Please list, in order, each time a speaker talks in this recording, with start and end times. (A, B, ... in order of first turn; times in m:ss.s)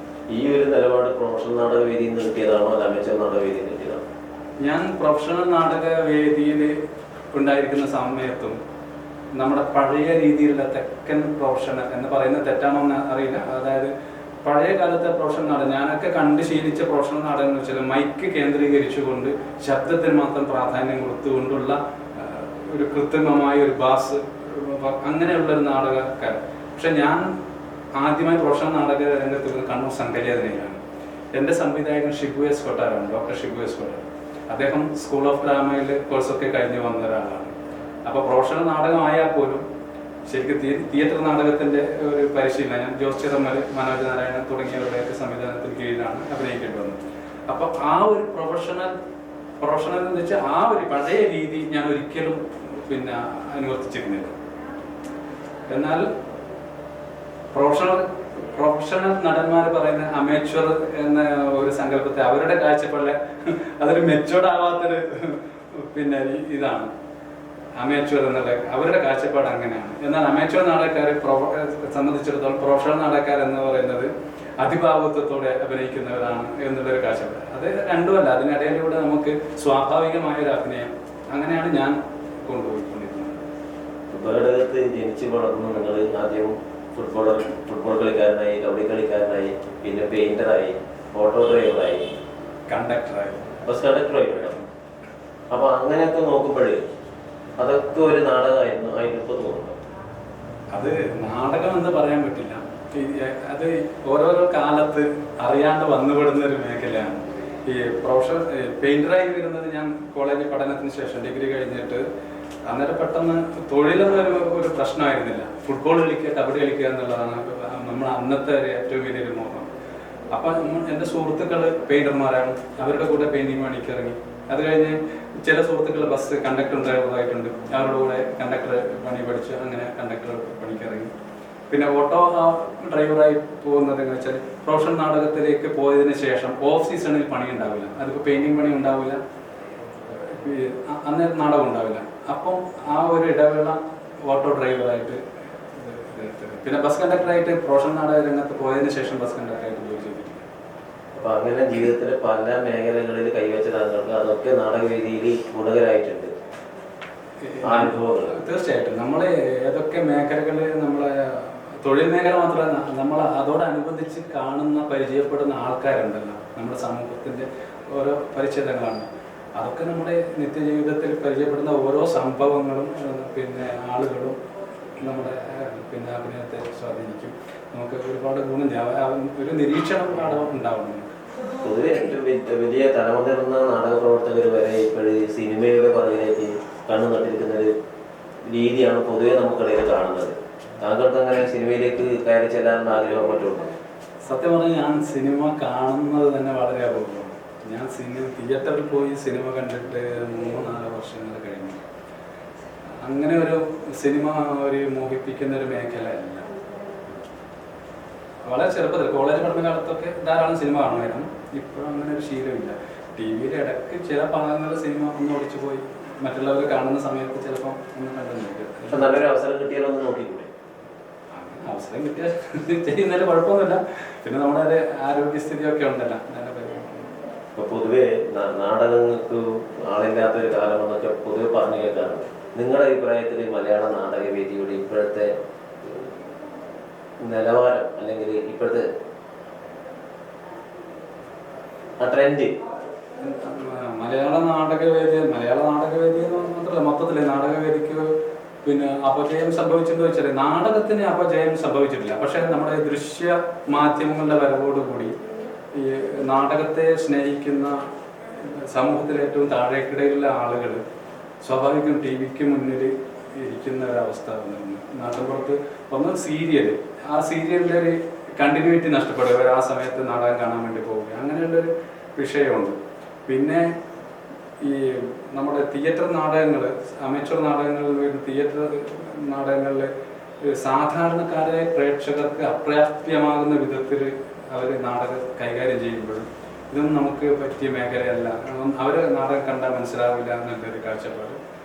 0:00.3-0:04.0 A
0:04.6-0:06.7 B
0:07.3-0:08.6 B
0:09.4-0:13.9 B
0:14.4-0:27.3 B
0:28.0-0:30.8 B
0:31.3-0:37.5 B
0:38.0-0:39.6 B
0:40.2-0:48.9 B
0:49.6-0:54.3 B
0:55.7-0:56.0 B
0:57.5-1:06.9 B
1:07.8-1:23.4 B
1:24.1-1:32.0 A
1:32.7-1:33.5 B
1:33.6-1:34.6 A
1:35.5-1:36.8 A
1:37.6-1:39.7 A
1:40.7-1:52.0 B
1:52.6-1:59.7 B
2:00.3-2:11.1 B
2:11.7-2:19.2 B
2:20.2-2:25.2 B
2:25.8-2:30.4 B
2:31.1-2:36.3 A
2:37.4-2:54.4 B
2:37.6-2:38.4 A
2:55.0-3:01.1 B
3:01.5-3:07.7 A
3:08.5-3:13.7 A
3:14.2-3:21.8 B
3:23.0-3:26.5 B
3:28.4-3:39.1 B
3:38.9-3:40.5 A
3:41.3-3:47.1 B
3:47.6-3:55.3 A
3:55.8-3:56.1 A
3:57.2-3:58.8 A
4:02.0-4:02.5 A
4:03.2-4:08.1 B
4:08.6-4:15.1 B
4:15.7-4:17.8 B
4:18.4-4:20.8 B
4:21.4-4:32.7 B
4:33.3-4:33.6 B
4:34.6-4:39.9 B
4:40.4-4:51.4 B